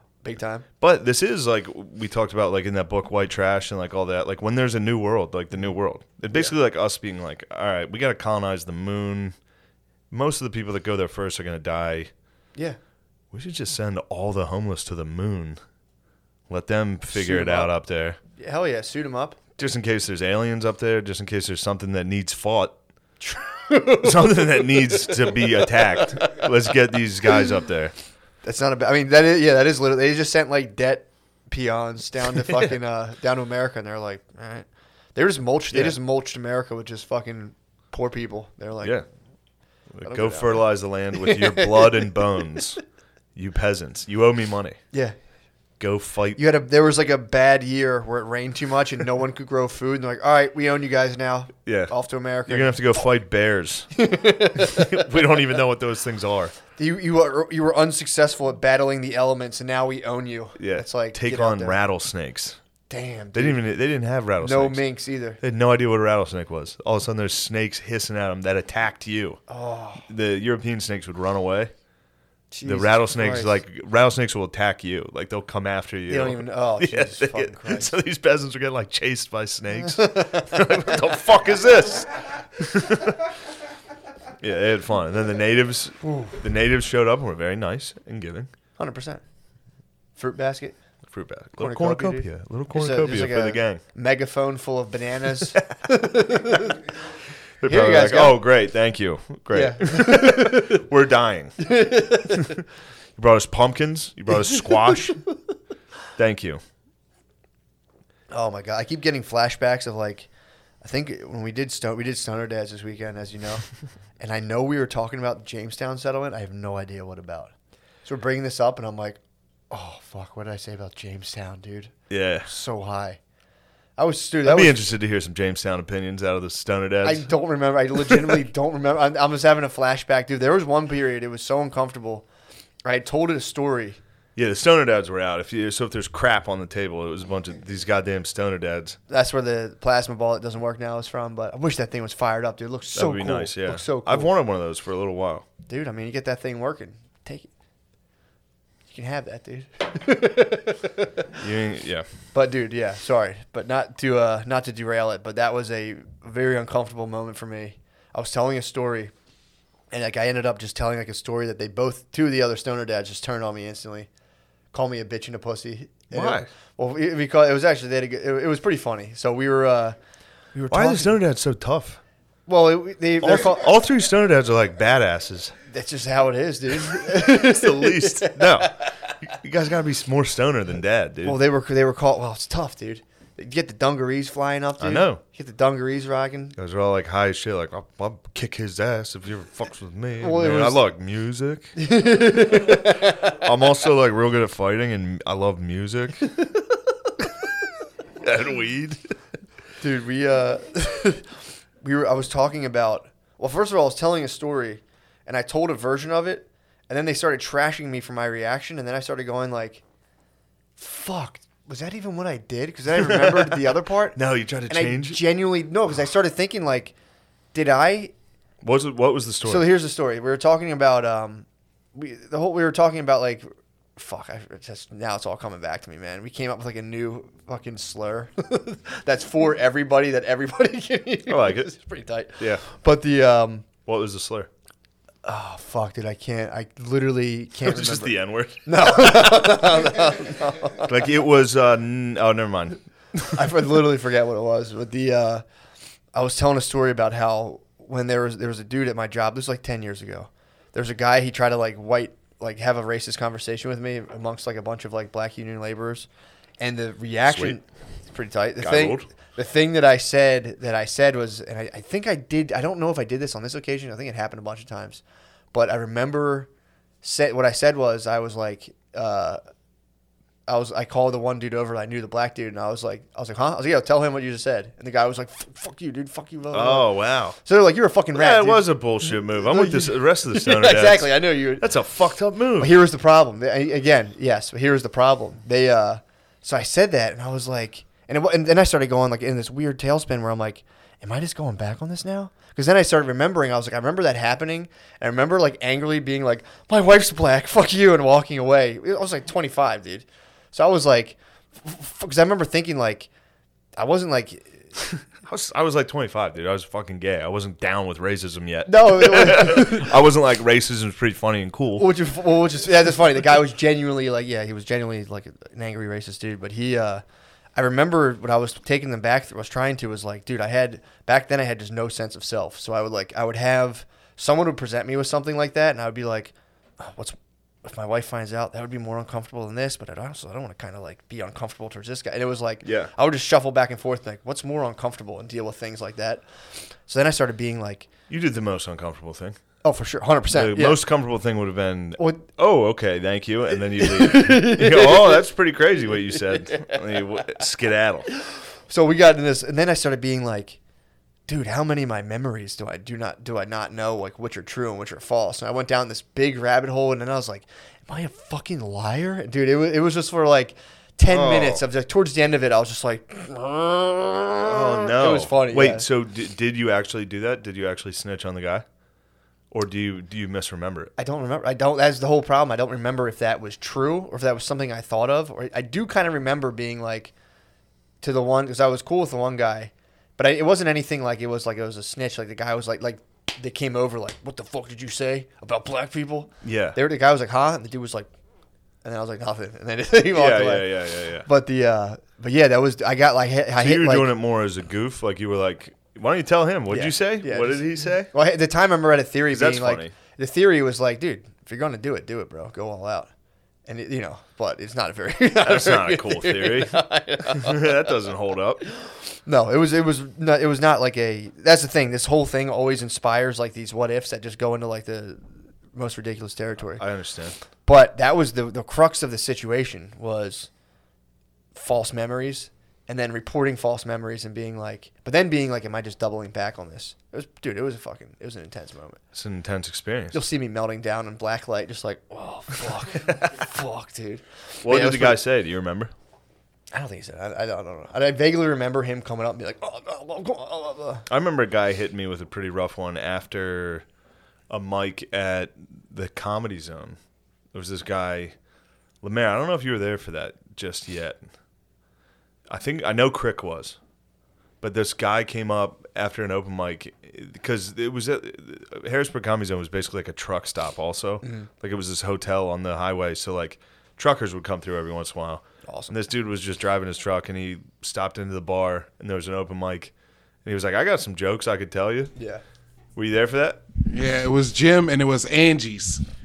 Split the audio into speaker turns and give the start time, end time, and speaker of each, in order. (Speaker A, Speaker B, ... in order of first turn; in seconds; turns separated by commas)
Speaker A: 0.2-0.7, Speaker B: 0.8-9.3, Speaker B: 10.1-12.1, Speaker B: 13.3-15.6, Speaker B: 16.5-18.2, Speaker A: 17.1-17.7, Speaker A: 18.4-19.4, Speaker B: 19.6-22.8, Speaker A: 23.2-26.4, Speaker B: 24.0-27.9, Speaker A: 28.4-39.0, Speaker B: 35.7-36.0, Speaker B: 39.9-42.8, Speaker A: 40.0-42.0, Speaker B: 43.3-44.8, Speaker B: 45.8-46.4, Speaker A: 46.4-52.8, Speaker B: 51.6-51.9, Speaker B: 52.5-53.9, Speaker A: 53.9-55.1, Speaker B: 54.5-56.5, Speaker A: 56.8-61.8, Speaker B: 60.6-62.6, Speaker A: 62.9-63.6, Speaker B: 63.3-64.8, Speaker A: 64.4-65.4, Speaker B: 65.4-69.4, Speaker A: 69.5-70.1, Speaker B: 70.1-71.7, Speaker A: 72.5-73.6, Speaker B: 72.6-83.3, Speaker A: 76.1-77.9, Speaker A: 79.9-80.9, Speaker B: 84.4-88.5, Speaker A: 86.0-86.3, Speaker A: 88.8-89.2, Speaker A: 90.2-90.8, Speaker B: 91.1-93.8, Speaker A: 91.6-96.8, Speaker B: 97.6-101.7, Speaker A: 97.6-98.4, Speaker A: 99.5-100.7, Speaker A: 101.6-102.5, Speaker B: 102.3-102.6, Speaker B: 103.2-105.2, Speaker B: 106.2-106.6, Speaker A: 108.3-110.3, Speaker A: 110.8-113.7, Speaker A: 114.2-117.5, Speaker A: 118.0-119.2, Speaker A: 119.7-121.9, Speaker B: 122.1-122.5, Speaker A: 122.4-123.2, Speaker A: 124.0-124.8, Speaker B: 124.4-127.3, Speaker A: 127.0-132.3, Speaker B: 128.1-128.4, Speaker A: 132.8-134.0, Speaker B: 134.3-139.0, Speaker A: 139.1-144.3, Speaker B: 142.9-145.4, Speaker A: 145.7-147.5, Speaker A: 148.9-151.3, Speaker B: 151.3-152.1, Speaker A: 152.3-159.1, Speaker A: 159.9-164.1, Speaker A: 164.7-169.9, Speaker B: 166.1-166.5, Speaker A: 170.5-171.2, Speaker B: 170.7-172.0, Speaker A: 172.5-173.7, Speaker B: 173.2-175.5, Speaker A: 175.7-178.9, Speaker B: 176.8-181.4, Speaker A: 181.2-186.5, Speaker B: 184.8-185.2, Speaker B: 186.6-191.8, Speaker A: 190.2-190.8, Speaker A: 191.8-193.2, Speaker B: 192.5-196.3, Speaker B: 198.2-199.0, Speaker A: 199.8-209.8, Speaker A: 210.8-216.9, Speaker B: 213.0-215.2, Speaker A: 217.5-218.1, Speaker B: 218.6-219.7, Speaker A: 219.4-233.7, Speaker B: 231.3-231.7, Speaker B: 233.8-234.5, Speaker A: 235.2-241.0, Speaker B: 237.6-239.6, Speaker B: 240.8-243.4, Speaker A: 243.3-245.4, Speaker A: 246.1-256.1, Speaker A: 256.6-265.0, Speaker B: 257.3-257.6, Speaker B: 258.6-259.1, Speaker A: 265.5-266.5, Speaker A: 267.0-269.4, Speaker A: 270.5-278.7, Speaker B: 276.5-277.4, Speaker B: 278.1-282.8, Speaker A: 279.3-281.7, Speaker A: 282.6-303.1, Speaker A: 303.8-304.7, Speaker B: 305.2-311.9, Speaker A: 308.6-309.9, Speaker A: 311.8-317.0, Speaker A: 317.6-336.2, Speaker B: 332.6-332.9, Speaker A: 336.9-337.9, Speaker B: 338.1-339.4, Speaker A: 339.6-340.8, Speaker B: 340.3-348.1, Speaker A: 342.0-342.2, Speaker A: 343.8-345.2, Speaker A: 346.5-346.8, Speaker A: 348.7-350.6, Speaker A: 351.3-365.9, Speaker B: 361.1-361.6, Speaker B: 364.4-368.6, Speaker B: 369.5-370.9, Speaker A: 371.0-377.1, Speaker A: 378.0-388.1, Speaker B: 386.4-386.8, Speaker A: 388.8-394.1, Speaker B: 390.1-391.3, Speaker B: 393.6-398.1, Speaker A: 396.7-403.1, Speaker B: 399.3-399.9, Speaker A: 403.7-407.8, Speaker B: 405.4-408.6, Speaker A: 408.8-416.8, Speaker B: 416.8-417.4, Speaker A: 417.6-420.5, Speaker A: 421.5-429.0, Speaker B: 429.1-430.2, Speaker A: 430.1-435.2, Speaker B: 434.6-435.9, Speaker A: 436.7-441.1, Speaker B: 441.1-443.8, Speaker B: 444.5-447.0, Speaker B: 447.5-448.3, Speaker B: 449.0-451.2, Speaker B: 452.5-453.8, Speaker B: 454.6-469.9, Speaker A: 461.2-461.5, Speaker A: 465.7-465.9, Speaker B: 470.4-472.1, Speaker A: 472.1-472.4, Speaker B: 472.9-473.6, Speaker C: 473.9-476.0